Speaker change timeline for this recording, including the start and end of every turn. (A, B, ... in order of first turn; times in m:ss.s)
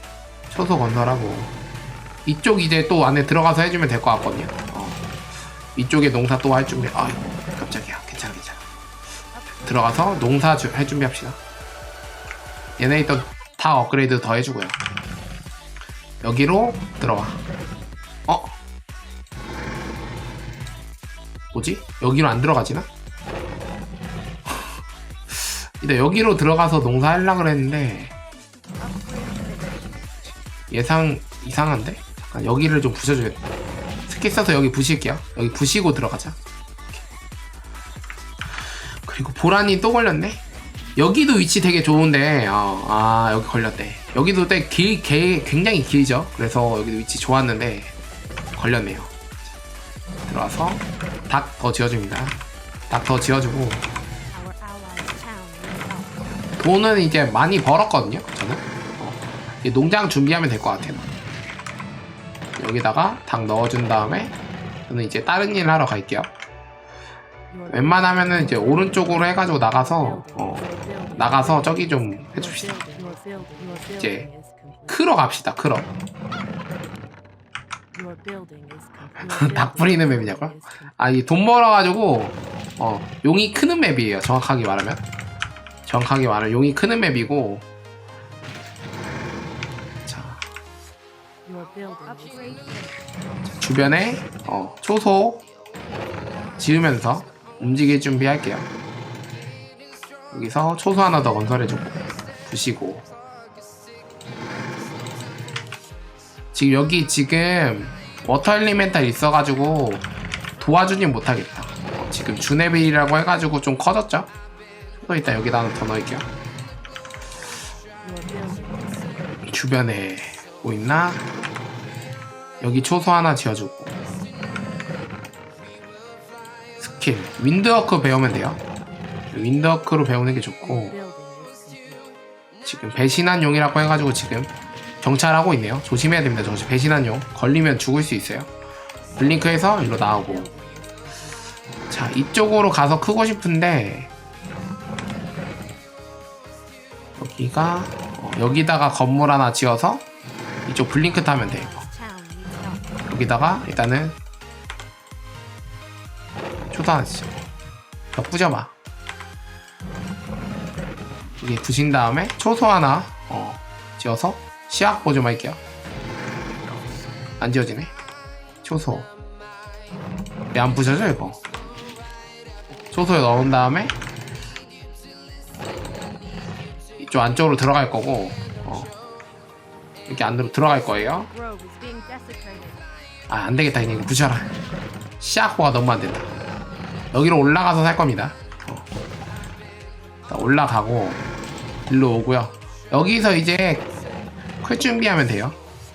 0:00.5-0:01.5 A
0:02.2-0:05.0 A
0:05.8-0:08.6 A
0:09.3-0:09.8 B
0:09.6-0:11.4 A
0:12.8-0:14.8 A
0:16.2-0:17.4 A
0:18.3-0:18.5 A
0:21.5-0:22.9 A
0:25.4-0:28.1 A
0:28.8-0:30.0 B
0:30.7-0:33.4 A
0:34.1-0:36.4 A
0:39.0-0:40.4 A
0:41.0-0:47.9 A
0:48.6-0:49.1 A
0:50.3-0:52.4 A
0:52.9-0:53.8 A
0:54.3-0:56.2 B
0:56.6-1:01.1 A
1:02.6-1:04.4 A
1:04.9-1:06.3 A
1:07.7-1:13.2 A
1:13.2-1:14.0 B
1:14.0-1:14.3 A
1:14.9-1:15.9 A
1:18.1-1:18.9 B
1:19.2-1:25.0 A
1:25.9-1:27.6 A
1:30.1-1:30.4 A
1:31.5-1:33.0 B
1:33.6-1:35.4 A
1:36.6-1:38.7 A
1:40.3-1:43.0 A
1:46.5-1:50.1 A
1:50.6-1:54.3 A
1:55.0-1:56.3 A
1:58.1-1:59.0 B
1:59.5-2:01.3 A
2:02.6-2:04.0 A
2:06.8-2:08.6 A
2:09.3-2:11.0 A
2:10.9-2:12.0 B
2:12.6-2:18.5 A
2:19.2-2:20.5 A
2:20.3-2:20.8 B
2:21.9-2:24.1 A
2:27.2-2:30.0 A
2:30.7-2:31.9 A
2:31.3-2:33.0 B
2:33.1-2:34.2 A
2:36.7-2:37.4 A
2:38.1-2:38.7 A
2:41.4-2:45.6 A
2:47.4-2:47.9 A
2:48.6-2:49.1 A
2:50.5-2:51.4 A
2:52.9-2:53.9 A
2:57.0-2:58.9 A
3:00.1-3:01.3 A
3:01.3-3:02.9 B
3:03.3-3:04.5 A
3:05.2-3:06.3 A
3:07.1-3:08.9 A
3:10.3-3:11.2 A
3:11.9-3:13.9 A
3:14.6-3:15.6 A